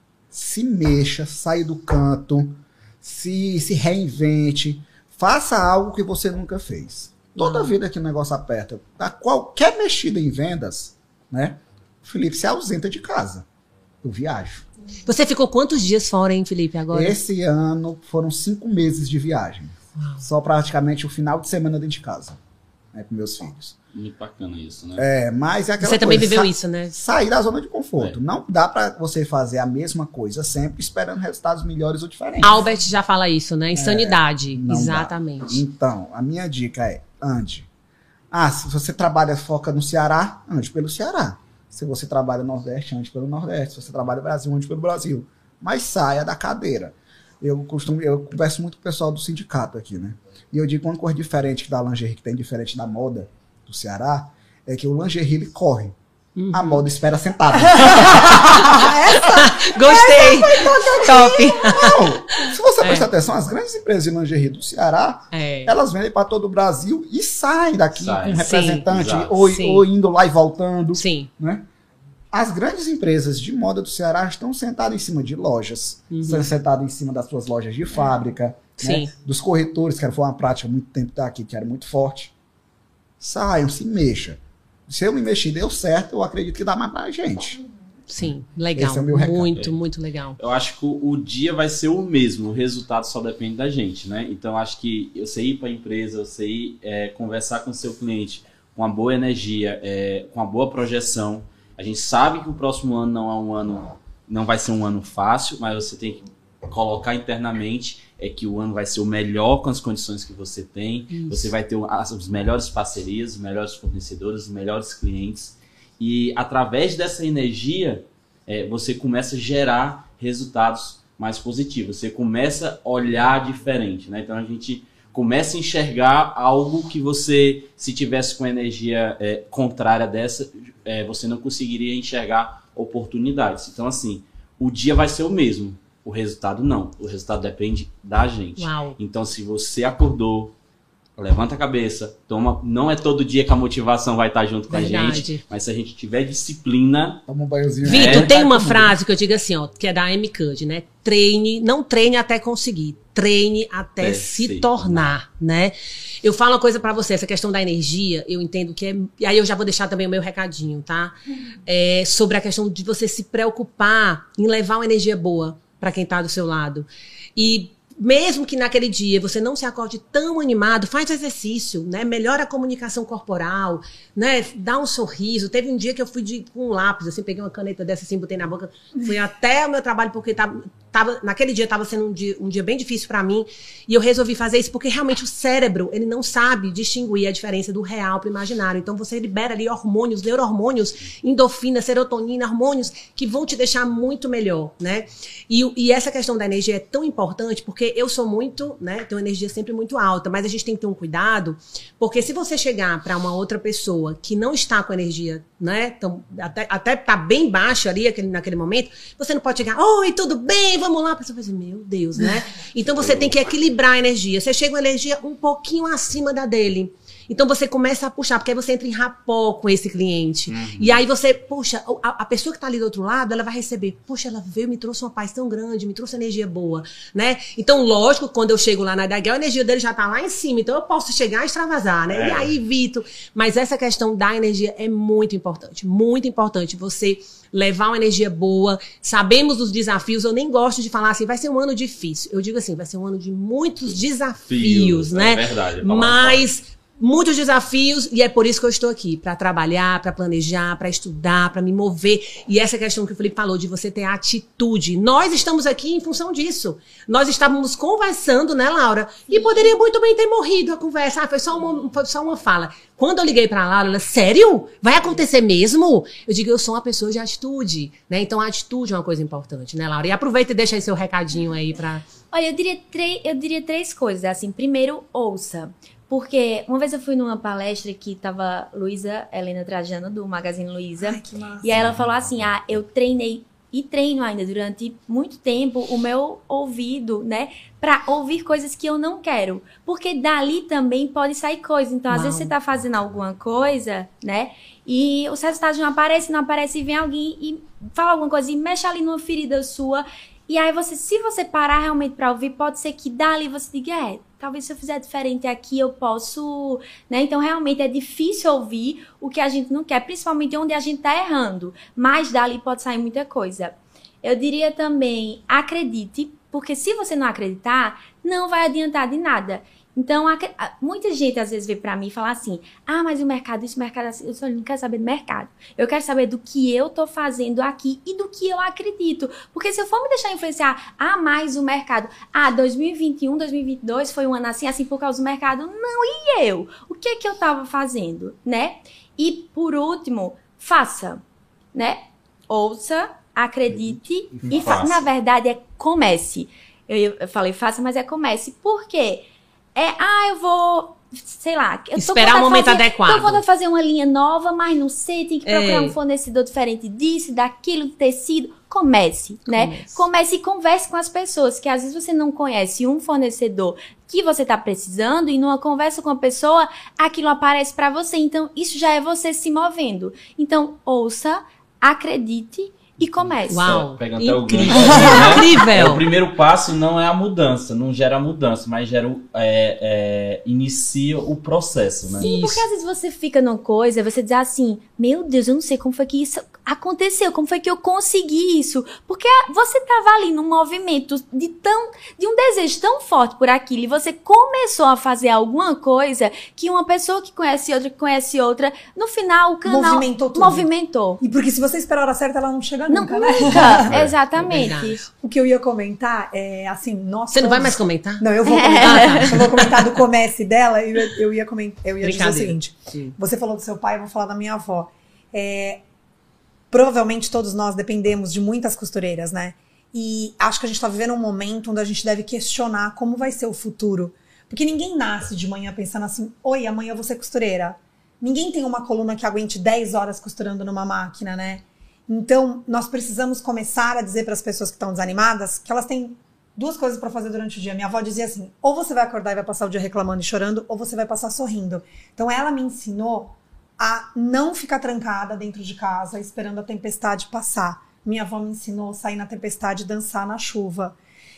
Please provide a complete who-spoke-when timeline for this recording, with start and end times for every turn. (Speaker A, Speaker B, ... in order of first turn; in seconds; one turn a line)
Speaker A: 0.3-13.4
Speaker B: 7.4-7.7
Speaker A: 14.0-14.6
Speaker B: 15.1-17.2
Speaker A: 16.9-22.4
Speaker B: 20.0-20.2
Speaker A: 22.9-23.8
Speaker C: 23.9-25.0
Speaker A: 25.0-32.6
Speaker B: 25.8-26.9
Speaker B: 32.4-35.6
Speaker A: 33.7-37.7
Speaker A: 38.3-56.0
Speaker B: 56.4-56.9
Speaker A: 56.5-58.9
Speaker D: 57.6-61.6
Speaker B: 58.8-63.1
Speaker A: 60.2-71.7
Speaker B: 65.3-65.7
Speaker C: 68.0-69.5
Speaker B: 68.4-68.9
Speaker B: 69.4-69.8
Speaker B: 70.9-71.3
Speaker A: 72.3-82.3
Speaker B: 76.1-76.5
Speaker B: 78.8-79.1
Speaker A: 83.2-87.6
Speaker B: 88.1-90.4
Speaker A: 88.7-89.6
Speaker C: 90.4-140.5
Speaker B: 111.1-111.5
Speaker B: 138.6-139.0
Speaker C: 141.2-147.2
Speaker B: 144.7-145.4
Speaker A: 147.3-149.0
Speaker B: 147.8-272.1
Speaker C: 147.8-148.4
Speaker C: 154.0-155.2
Speaker C: 212.9-213.3
Speaker C: 220.5-221.0
Speaker C: 232.1-232.5
Speaker C: 244.4-246.5
Speaker E: 272.3-341.2
Speaker D: 281.0-281.8
Speaker C: 281.8-282.1
Speaker B: 292.1-292.5
Speaker E: 341.7-373.8
Speaker A: 343.7-344.7
Speaker C: 344.4-345.1
Speaker B: 351.9-353.4
Speaker B: 355.4-355.9
Speaker B: 359.5-360.1
Speaker B: 373.5-376.0
Speaker C: 373.6-382.3
Speaker D: 374.9-375.2
Speaker E: 382.1-401.2
Speaker B: 382.2-382.6
Speaker D: 399.6-400.7
Speaker D: 401.2-403.9
Speaker E: 402.9-405.0
Speaker C: 403.6-404.5
Speaker B: 404.4-405.0
Speaker D: 405.1-415.8
Speaker B: 407.3-409.9
Speaker E: 408.4-409.4
Speaker B: 412.0-413.2
Speaker D: 416.7-450.9